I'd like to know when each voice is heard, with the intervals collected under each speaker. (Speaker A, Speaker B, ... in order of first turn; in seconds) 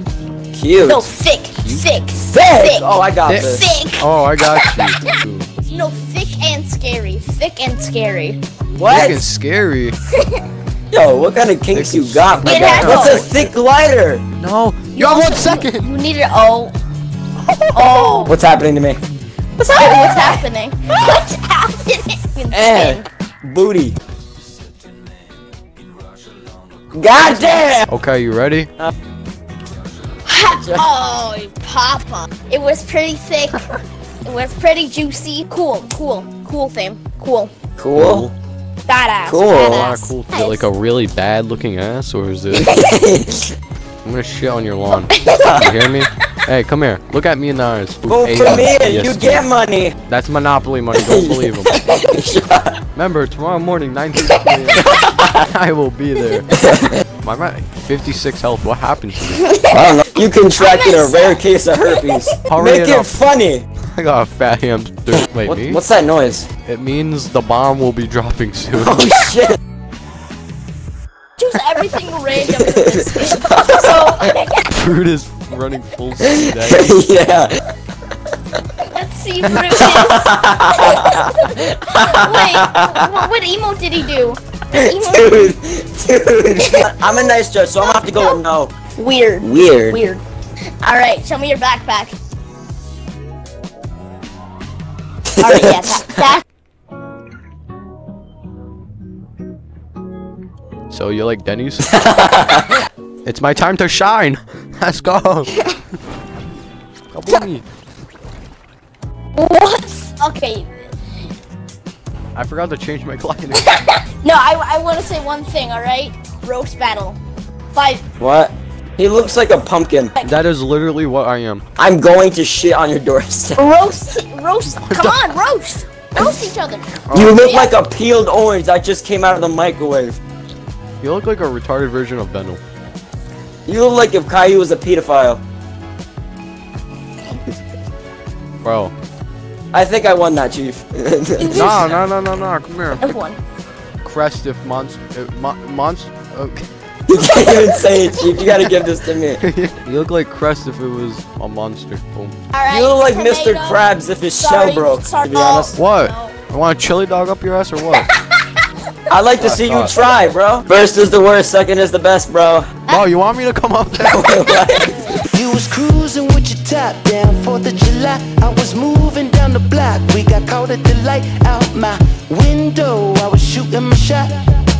Speaker A: 0.5-1.1, 2.3-3.7, 8.8-9.2, 10.9-14.2, 18.2-19.0, 19.6-20.4, 22.5-24.0, 26.9-27.9, 30.5-30.9, 37.8-38.3, 39.2-39.9, 42.5-43.5, 45.4-45.7, 48.1-50.0, 50.9-52.8, 54.7-55.4, 56.5-57.0, 59.7-63.6, 65.4-66.5, 68.8-69.6, 72.4-74.1, 76.2-77.5, 79.7-83.2, 84.7-88.7, 89.4-90.0, 95.3-96.3, 101.9-102.8, 118.2-120.1, 121.8-123.6, 127.1-130.2, 133.7-135.4, 139.7-141.9, 147.1-149.4, 152.7-155.7, 159.1-162.7, 164.0-165.1
Speaker B: 0.8-5.1, 5.7-8.4, 10.1-10.4, 12.4-13.3, 14.9-16.7, 17.7-18.3, 19.7-23.1, 30.2-37.5, 38.9-40.7, 44.9-45.5, 59.3-60.0, 60.5-62.3, 71.4-74.7, 78.8-85.5, 86.5-88.4, 89.0-90.2, 90.8-92.2, 95.4-96.4, 109.3-110.9, 113.5-117.2, 117.7-118.0, 123.5-127.7, 141.4-141.9, 143.0-143.4, 152.5-156.3, 157.9-158.7, 164.3-164.9
Speaker C: 3.2-5.5, 8.8-9.9, 11.7-13.5, 14.4-15.9, 17.4-18.3, 27.9-28.7, 37.9-38.3, 39.6-42.7, 44.0-49.5, 50.0-51.8, 52.9-56.6, 57.2-59.5, 62.5-63.1, 63.9-65.8, 66.7-69.1, 74.7-76.9, 100.9-101.9, 103.2-105.6, 107.1-107.6, 112.3-113.8, 120.2-121.6, 124.7-125.3, 131.0-132.6, 138.6-138.9, 141.5-143.1, 144.0-146.7, 148.4-148.7, 149.4-152.3, 155.7-158.1, 159.4-159.9, 162.9-164.3
Speaker D: 165.3-174.4